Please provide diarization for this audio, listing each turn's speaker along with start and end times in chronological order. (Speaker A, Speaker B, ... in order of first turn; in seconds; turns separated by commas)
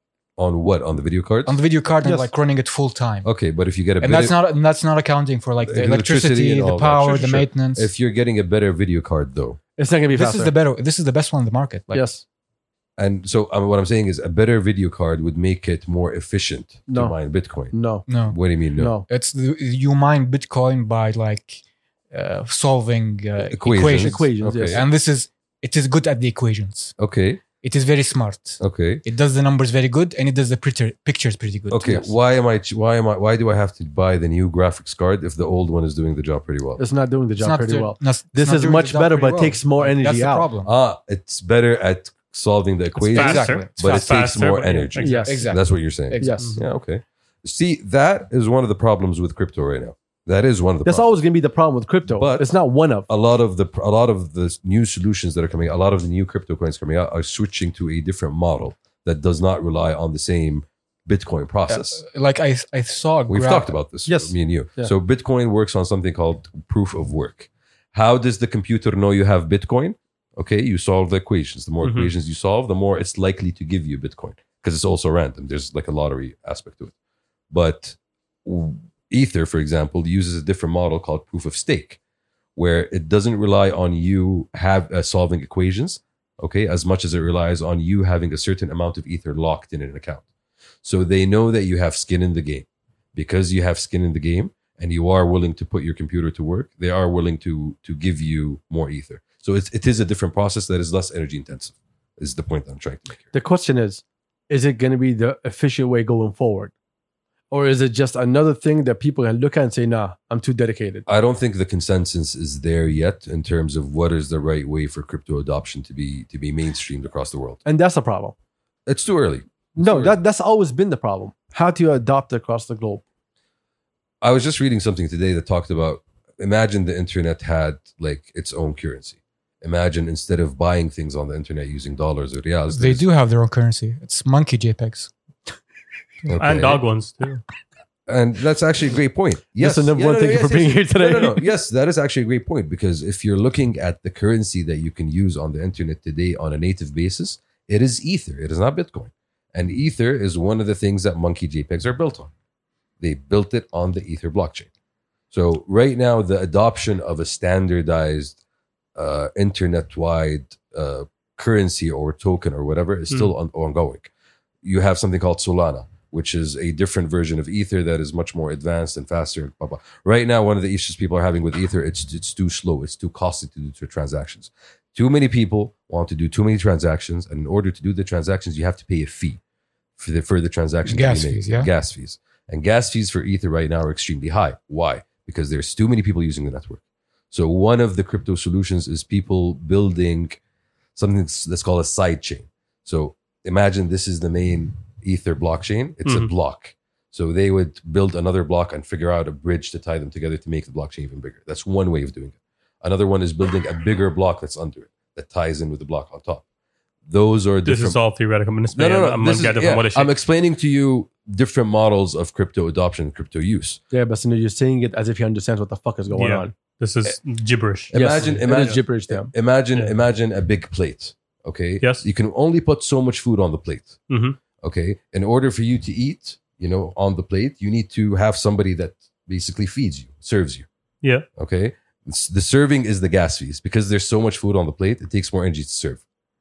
Speaker A: 0.4-1.6, Speaker B: 1.4-3.3, Speaker C: 2.0-2.3, Speaker A: 3.2-4.4, Speaker B: 4.0-7.9, Speaker A: 5.6-9.6, Speaker C: 9.8-10.5, Speaker B: 10.1-12.1, Speaker C: 11.9-12.2, Speaker A: 13.0-18.9, Speaker C: 16.9-17.1, Speaker C: 17.7-18.1, Speaker B: 18.1-18.4, Speaker C: 18.8-19.1, Speaker B: 19.0-26.9, Speaker A: 23.4-24.8, Speaker C: 23.7-24.9, Speaker A: 27.0-27.4, Speaker B: 27.5-32.1, Speaker A: 28.6-29.0, Speaker A: 31.7-36.8, Speaker C: 36.8-40.5, Speaker B: 37.4-40.7, Speaker A: 40.6-51.2, Speaker B: 43.0-44.1, Speaker D: 43.1-45.4, Speaker C: 45.0-45.5, Speaker B: 45.2-46.6, Speaker C: 46.2-46.6, Speaker C: 50.9-53.1, Speaker A: 52.1-52.5, Speaker A: 53.0-62.0, Speaker B: 61.7-63.8, Speaker A: 63.3-76.9, Speaker C: 64.0-64.9, Speaker D: 71.8-72.1, Speaker A: 77.5-82.0, Speaker A: 82.5-90.2, Speaker A: 90.8-103.3, Speaker C: 103.3-106.7, Speaker C: 107.5-111.0, Speaker A: 111.0-117.6, Speaker C: 117.6-118.3, Speaker A: 118.9-120.2, Speaker C: 119.8-123.0, Speaker A: 124.2-133.1, Speaker B: 132.7-135.1, Speaker D: 136.2-137.4, Speaker A: 136.3-136.8, Speaker A: 138.1-152.3, Speaker C: 139.6-141.4, Speaker A: 153.0-154.7, Speaker A: 155.3-158.4, Speaker A: 158.9-164.1, Speaker A: 164.6-179.4, Speaker A: 180.0-190.4, Speaker B: 180.9-181.7, Speaker A: 190.9-206.4, Speaker D: 196.0-196.3, Speaker A: 207.1-208.0, Speaker D: 207.6-210.1, Speaker A: 208.7-213.8, Speaker C: 213.9-216.5, Speaker D: 216.1-218.3, Speaker A: 217.9-224.0, Speaker C: 217.9-219.3, Speaker D: 224.1-224.4, Speaker A: 224.6-230.7, Speaker A: 231.4-236.0